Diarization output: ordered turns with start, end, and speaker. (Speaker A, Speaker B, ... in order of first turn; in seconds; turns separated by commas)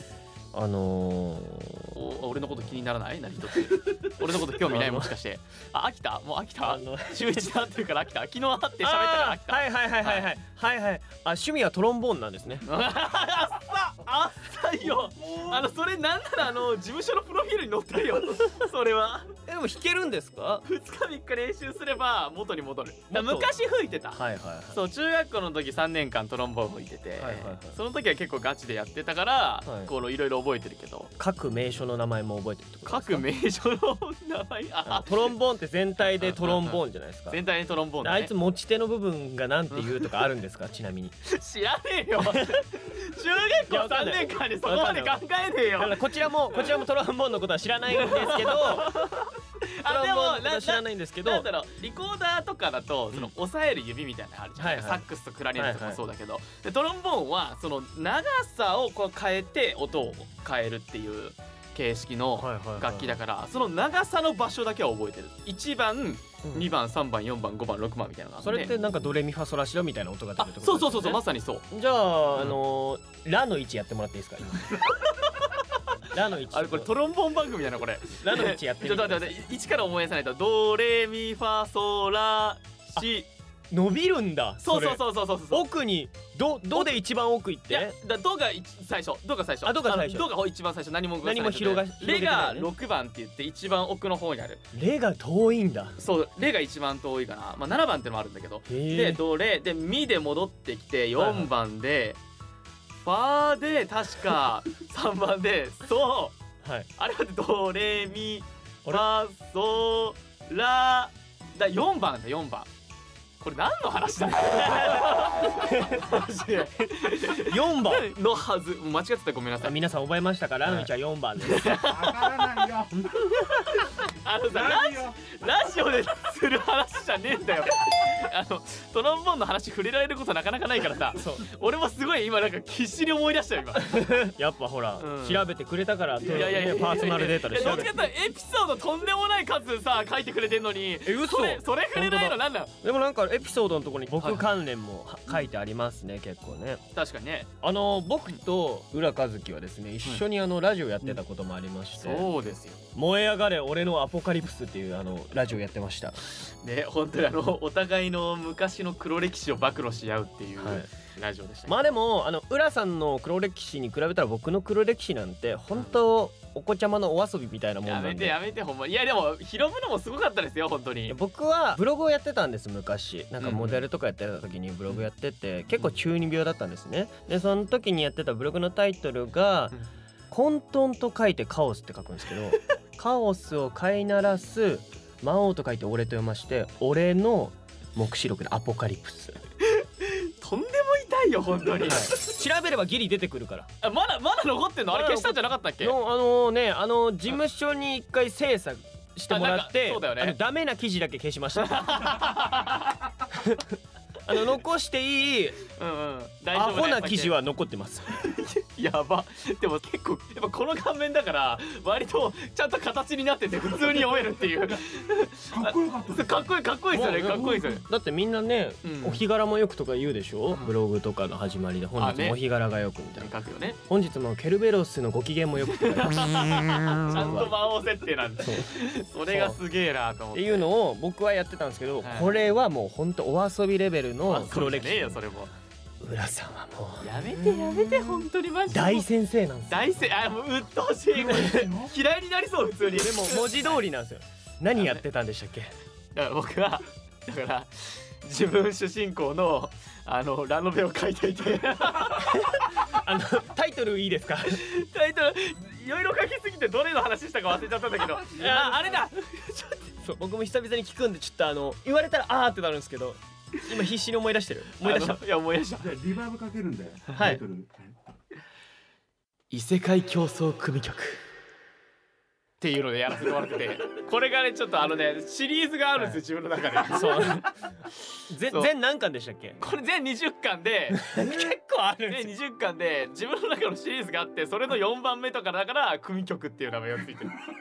Speaker A: 0.5-1.9, Speaker B: 1.9-10.3, Speaker A: 4.5-5.1, Speaker A: 6.6-7.5, Speaker A: 8.8-12.6, Speaker B: 12.6-19.3, Speaker A: 19.5-20.6, Speaker B: 20.6-31.1, Speaker A: 23.1-23.5, Speaker A: 24.1-24.8, Speaker A: 27.2-27.8, Speaker A: 29.6-29.9, Speaker A: 31.2-33.2, Speaker B: 32.9-35.4, Speaker A: 34.8-37.4, Speaker B: 36.0-38.3, Speaker A: 38.0-41.1, Speaker B: 39.7-40.2, Speaker B: 41.2-46.7, Speaker A: 42.3-42.6, Speaker A: 43.7-45.2, Speaker A: 45.8-49.0, Speaker B: 47.9-68.8, Speaker A: 49.9-51.5, Speaker A: 54.6-56.0, Speaker A: 62.4-63.2, Speaker A: 66.4-66.7, Speaker A: 68.4-74.8, Speaker B: 70.4-71.6, Speaker B: 74.7-75.6, Speaker A: 76.1-76.9, Speaker B: 76.5-83.3, Speaker A: 78.2-79.4, Speaker A: 83.7-87.9, Speaker B: 84.6-85.6, Speaker B: 87.7-94.6, Speaker A: 89.6-90.3, Speaker A: 91.2-92.7, Speaker A: 94.7-96.0, Speaker B: 96.0-102.2, Speaker A: 98.7-99.2, Speaker A: 101.2-101.5, Speaker B: 103.0-106.4, Speaker A: 106.6-106.9, Speaker B: 107.0-112.7, Speaker B: 113.4-119.8, Speaker A: 114.6-116.1, Speaker A: 117.3-118.1, Speaker A: 119.6-121.7, Speaker B: 120.6-120.9, Speaker B: 121.4-122.5, Speaker C: 121.8-123.1, Speaker A: 122.9-123.8, Speaker B: 123.5-134.1, Speaker C: 124.5-125.4, Speaker A: 131.1-131.4, Speaker A: 133.7-138.0, Speaker B: 135.0-135.4, Speaker B: 136.2-142.7, Speaker A: 141.0-146.8, Speaker B: 144.2-144.4, Speaker B: 146.9-147.5, Speaker A: 147.6-152.3, Speaker B: 151.9-152.8, Speaker A: 152.9-156.2, Speaker B: 156.6-161.9, Speaker A: 160.6-160.9, Speaker A: 161.7-168.4, Speaker B: 167.8-171.2, Speaker A: 171.1-179.8, Speaker B: 173.4-173.8, Speaker A: 180.3-189.4, Speaker B: 189.6-192.2, Speaker A: 191.8-193.7, Speaker B: 193.8-195.9, Speaker A: 194.9-202.2, Speaker B: 199.3-200.4, Speaker B: 201.6-203.0, Speaker A: 203.3-205.6, Speaker B: 205.7-207.3, Speaker A: 206.5-208.3, Speaker B: 208.2-217.8, Speaker C: 215.5-216.4, Speaker A: 216.9-223.3, Speaker B: 218.8-219.2, Speaker B: 221.9-222.4, Speaker B: 223.2-223.8, Speaker A: 223.9-227.6, Speaker B: 225.7-230.7, Speaker A: 228.4-228.7, Speaker A: 229.2-229.6, Speaker A: 230.3-235.2, Speaker B: 232.0-232.4, Speaker B: 234.3-235.5, Speaker A: 236.0-237.1, Speaker B: 237.0-239.1, Speaker C: 237.2-238.2, Speaker A: 238.7-240.1, Speaker B: 239.7-243.8, Speaker C: 241.1-241.9, Speaker A: 242.9-245.7, Speaker B: 244.7-245.0, Speaker B: 246.1-252.8, Speaker A: 252.2-254.6, Speaker B: 254.5-259.9, Speaker A: 258.3-259.1, Speaker A: 260.0-265.2, Speaker B: 264.8-265.9, Speaker C: 265.8-268.0, Speaker A: 267.1-267.4, Speaker B: 269.5-271.2, Speaker B: 272.6-277.5, Speaker A: 276.8-277.5, Speaker A: 278.3-279.6, Speaker B: 279.6-281.1, Speaker A: 280.9-282.3, Speaker B: 282.1-287.4